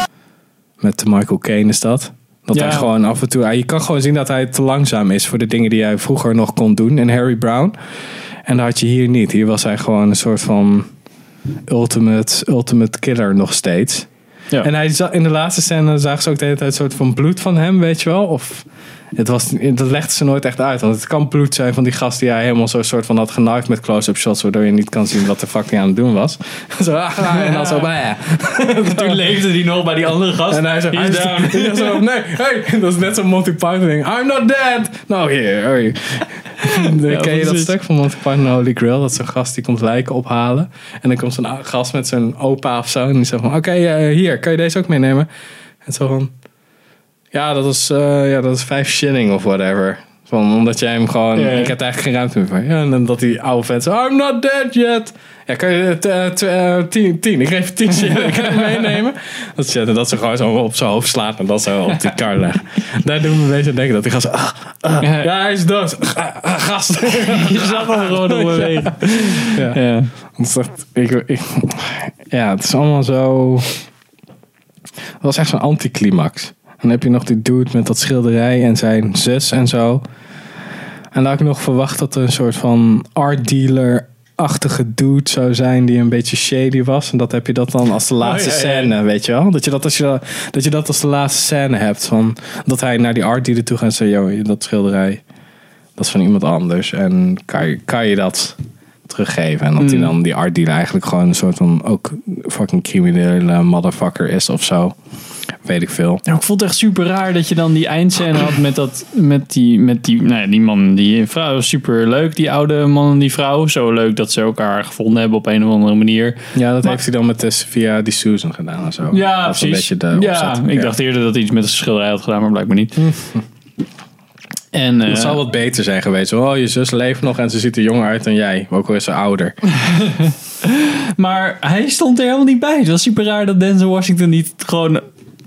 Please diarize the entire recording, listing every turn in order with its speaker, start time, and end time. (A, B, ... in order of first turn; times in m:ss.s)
0:00.8-0:07.8 A
0:02.5-0:02.9 B
0:08.5-0:10.9 A
0:11.7-0:14.1 A
0:14.6-0:29.2 A
0:27.3-0:27.8 B
0:28.8-0:32.0 B
0:30.5-0:45.3 A
0:36.6-0:37.7 B
0:45.8-0:46.3 A
0:47.3-1:13.8 A
0:51.4-0:51.8 B
1:05.0-1:05.3 B
1:07.2-1:10.1 B
1:15.2-1:20.0 A
1:21.1-1:35.2 A
1:28.2-1:28.9 B
1:36.0-1:45.0 A
1:39.8-1:40.1 B
1:45.6-1:46.2 A
1:46.3-1:57.0 B
1:56.5-2:01.0 A
1:59.1-2:03.1 B
2:03.0-2:03.4 A
2:04.7-2:05.4 B
2:05.1-2:09.6 A
2:09.8-2:15.0 B